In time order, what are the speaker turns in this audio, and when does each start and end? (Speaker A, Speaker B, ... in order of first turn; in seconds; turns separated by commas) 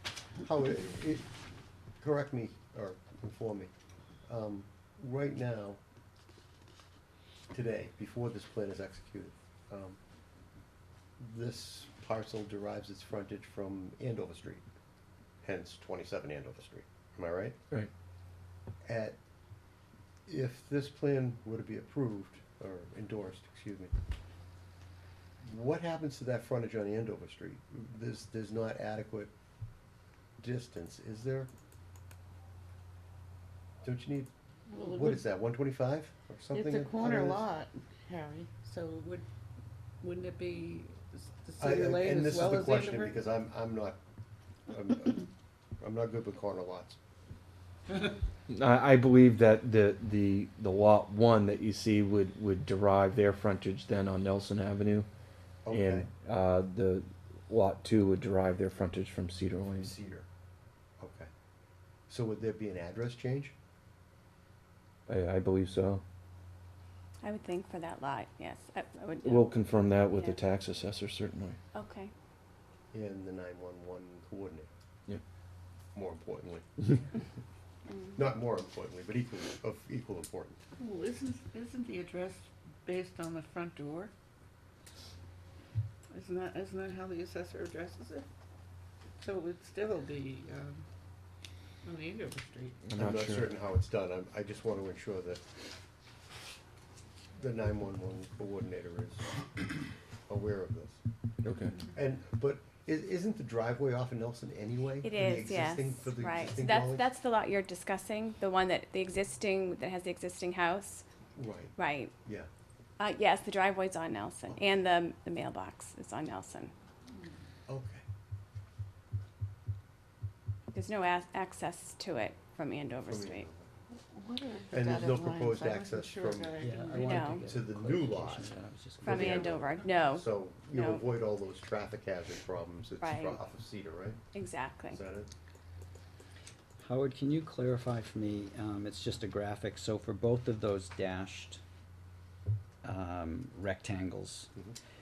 Speaker A: 0.4-1.2, Speaker A: 2.0-3.7, Speaker A: 4.3-5.8, Speaker A: 7.5-10.0, Speaker A: 11.2-14.6, Speaker A: 15.4-17.6, Speaker A: 18.8-19.2, Speaker A: 20.3-23.9, Speaker A: 25.4-29.3, Speaker A: 30.4-31.5, Speaker A: 33.8-37.4, Speaker B: 34.7-35.2, Speaker B: 36.5-39.2, Speaker B: 40.0-43.2, Speaker A: 41.6-44.0, Speaker A: 44.7-45.3, Speaker A: 45.8-47.0, Speaker B: 47.9-48.2, Speaker C: 48.5-55.1, Speaker A: 55.6-56.1, Speaker C: 55.7-59.9, Speaker A: 59.7-60.3, Speaker A: 61.0-61.3, Speaker A: 62.1-63.5, Speaker C: 65.1-66.0, Speaker D: 67.2-70.4, Speaker C: 69.2-71.6, Speaker D: 71.7-72.1, Speaker A: 72.9-74.7, Speaker A: 75.9-77.2, Speaker D: 77.9-78.2, Speaker A: 78.1-80.6, Speaker B: 80.8-84.1, Speaker B: 86.1-88.3, Speaker B: 89.2-90.8, Speaker B: 91.8-92.8, Speaker C: 92.8-93.5, Speaker A: 93.0-95.4, Speaker A: 97.3-99.3, Speaker A: 100.3-101.0, Speaker C: 101.4-101.7, Speaker A: 101.9-107.0, Speaker D: 105.0-111.0, Speaker A: 111.3-112.5, Speaker D: 111.8-112.1, Speaker D: 113.0-116.7, Speaker A: 117.7-118.0, Speaker D: 120.7-123.5, Speaker A: 123.0-123.7, Speaker B: 124.1-127.2, Speaker A: 124.7-126.5, Speaker E: 126.6-129.6, Speaker D: 126.9-127.5, Speaker A: 127.3-128.5, Speaker D: 129.0-131.1, Speaker A: 129.0-129.6, Speaker B: 129.2-130.2, Speaker A: 130.1-134.2, Speaker D: 133.0-133.4, Speaker D: 134.3-135.0, Speaker A: 134.9-135.3, Speaker E: 136.8-141.6, Speaker E: 142.8-144.5